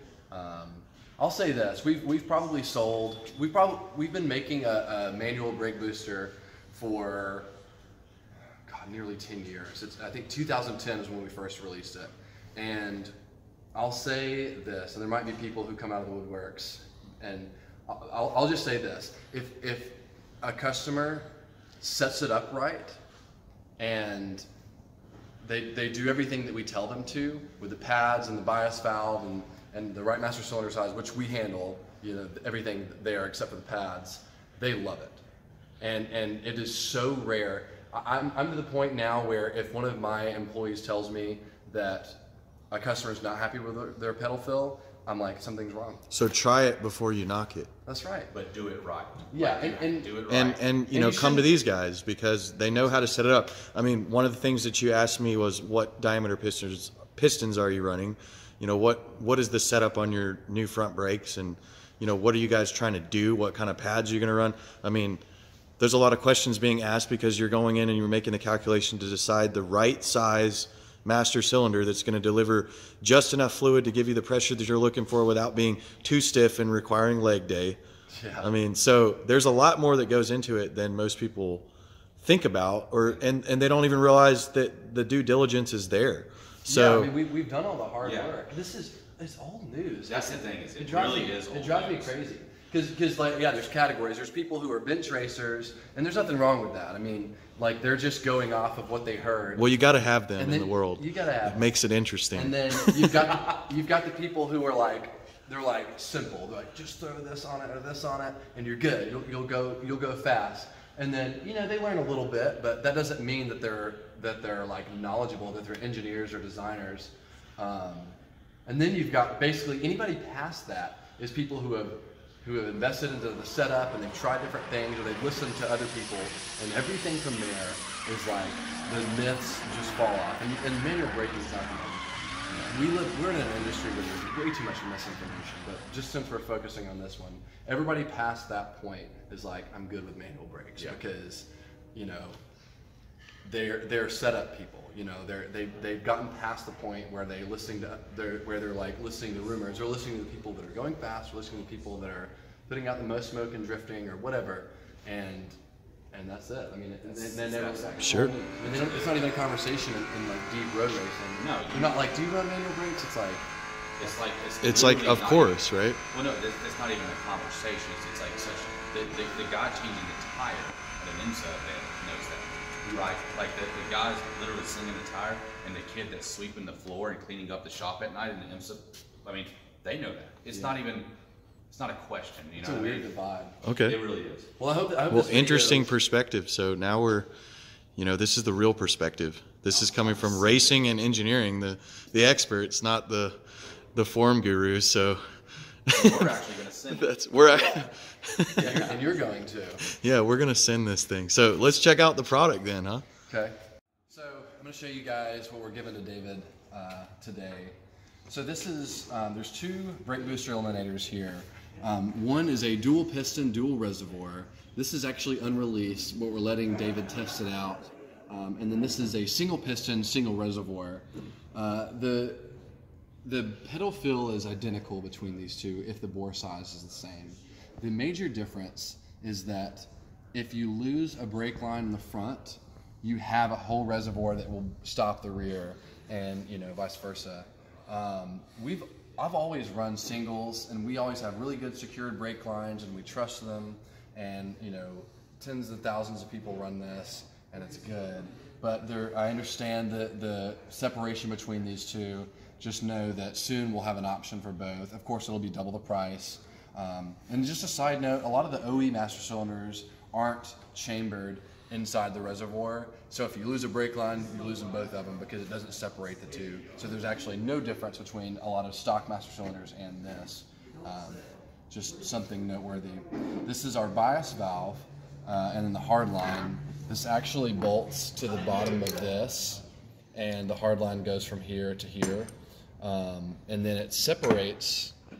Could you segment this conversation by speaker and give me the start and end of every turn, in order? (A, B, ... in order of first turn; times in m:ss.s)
0:00.3-0:07.5 A
0:08.6-0:13.1 A
0:13.7-0:21.3 A
0:21.8-0:23.0 A
0:23.8-0:24.4 A
0:25.4-0:35.2 A
0:35.8-0:42.2 A
0:42.7-0:46.0 A
0:46.1-0:47.7 B
0:47.8-0:48.3 A
0:48.3-0:50.6 C
0:49.3-0:50.2 A
0:50.3-1:05.2 B
0:50.9-0:51.5 A
1:05.8-1:17.8 B
1:18.1-1:18.5 A
1:18.4-1:27.1 B
1:26.6-1:39.7 A
1:28.0-1:28.3 C
1:30.1-1:32.1 C
1:39.6-1:43.2 B
1:40.4-1:41.6 A
1:42.3-2:22.4 A
2:23.4-2:35.6 A
2:36.1-2:43.4 A
2:37.0-2:39.3 C
2:38.0-2:38.4 B
2:41.4-2:42.0 C
2:44.0-3:01.1 C
2:44.6-2:46.0 B
3:00.5-3:00.8 A
3:01.7-3:03.1 C
3:02.6-3:03.6 A
3:03.6-3:04.0 B
3:03.8-3:04.5 C
3:04.6-3:05.9 A
3:05.1-3:07.3 B
3:08.0-3:13.4 B
3:09.7-3:10.8 C
3:13.9-3:15.2 B
3:15.9-3:16.3 B
3:15.9-3:17.8 C
3:16.9-3:19.0 B
3:18.6-3:19.8 A
3:19.9-3:23.0 B
3:23.3-3:23.5 A
3:24.1-3:27.8 A
3:28.3-3:42.6 A
3:43.2-4:44.9 A